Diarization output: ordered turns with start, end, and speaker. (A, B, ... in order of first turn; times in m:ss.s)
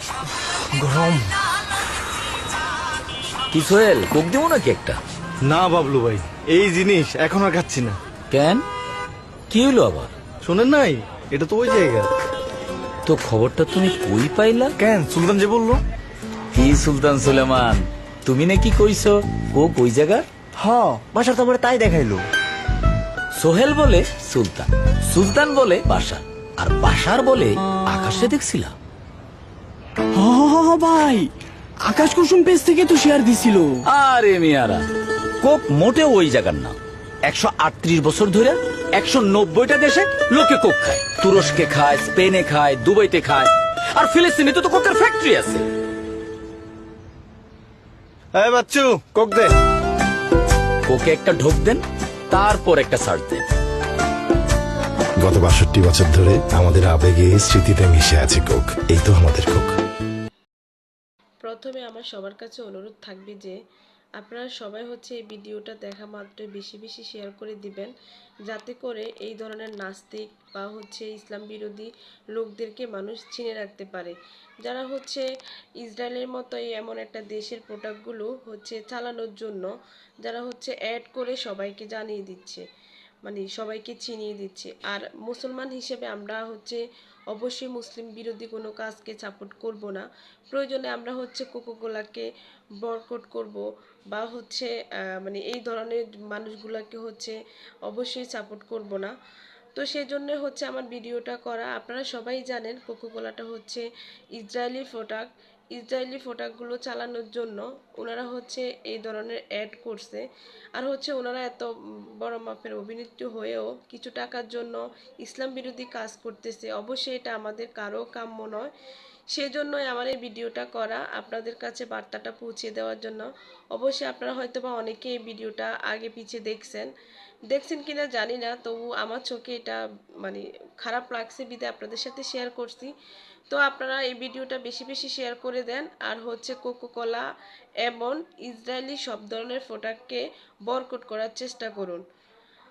0:00.7-0:01.3 A
0:03.5-0:05.0 B
0:05.5-0:08.0 A
0:08.3-0:08.6 B
0:09.5-0:10.1 B
0:10.4-0:12.1 A
0:13.0-0:14.7 B
0:14.8-0:15.8 A
0:16.5-0:20.2 B
0:20.6-0:22.2 A
0:23.4-0:28.7 B
0:30.1-0:31.3 C
0:31.8-0:33.8 C
0:33.8-0:34.8 B
0:35.4-0:45.7 B
0:48.3-0:49.5 A
0:50.8-0:53.5 B
0:55.2-0:59.8 D
1:01.4-1:03.6 E
1:04.2-1:07.9 E
1:08.5-1:15.3 E
1:15.8-1:19.7 E
1:20.2-1:22.6 E
1:23.2-1:32.3 E
1:32.8-1:39.1 E
1:39.8-1:43.9 E
1:44.4-1:50.2 E
1:50.8-1:51.7 E
1:52.2-1:58.7 E
1:59.3-2:06.9 E
2:07.5-2:12.9 E
2:13.5-2:17.2 E
2:17.8-2:22.0 E